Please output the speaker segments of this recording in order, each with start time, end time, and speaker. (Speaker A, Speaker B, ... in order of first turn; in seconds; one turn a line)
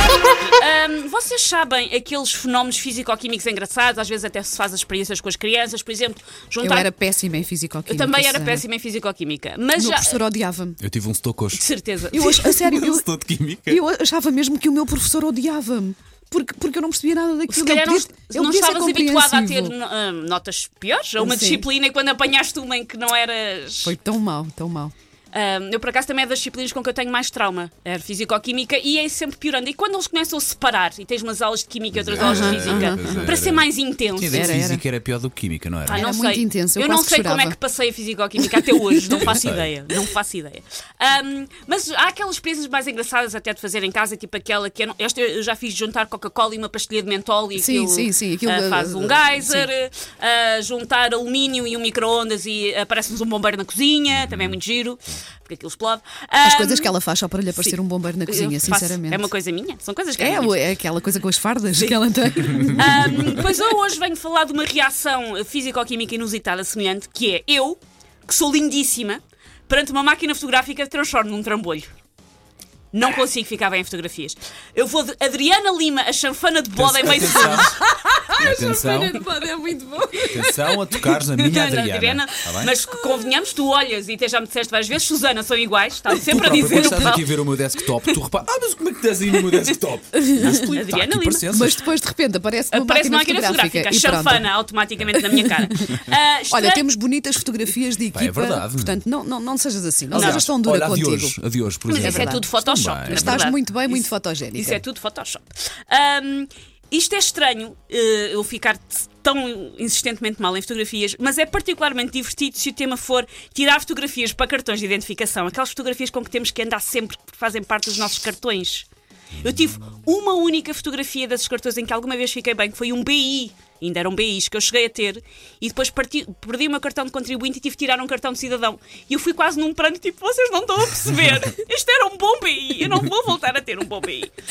Speaker A: 0.6-6.9
Speaker B: 6.6-8.6
Speaker A: 7.9-10.2
Speaker B: 9.8-10.8
Speaker C: 10.8-11.6
Speaker A: 11.5-12.6
Speaker B: 12.1-13.1
Speaker C: 12.2-13.8
Speaker B: 13.7-19.7
Speaker A: 17.5-24.0
Speaker B: 21.2-21.7
Speaker B: 23.8-24.9
Speaker A: 25.3-34.6
Speaker C: 31.9-36.0
Speaker B: 32.2-33.3
Speaker B: 34.3-34.8
Speaker A: 35.9-56.9
Speaker B: 35.9-37.6
Speaker C: 39.2-39.7
Speaker B: 47.5-49.7
Speaker C: 54.1-54.6
Speaker B: 56.4-59.3
Speaker A: 57.5-60.6
Speaker B: 60.2-63.5
Speaker A: 61.8-71.9
Speaker A: 72.9-77.8
Speaker C: 76.8-77.8
Speaker B: 77.0-81.2
Speaker C: 78.4-79.2
Speaker C: 80.2-82.7
Speaker A: 81.4-88.2
Speaker C: 86.3-91.8
Speaker A: 89.3-89.8
Speaker B: 90.4-90.7
Speaker A: 90.7-91.5
Speaker B: 91.5-94.5
Speaker A: 92.7-96.9
Speaker B: 95.1-101.4
Speaker C: 98.1-99.0
Speaker A: 100.1-100.5
Speaker C: 100.1-103.5
Speaker A: 101.9-118.9
Speaker B: 101.9-102.5
Speaker B: 103.1-104.8
Speaker A: 119.4-134.3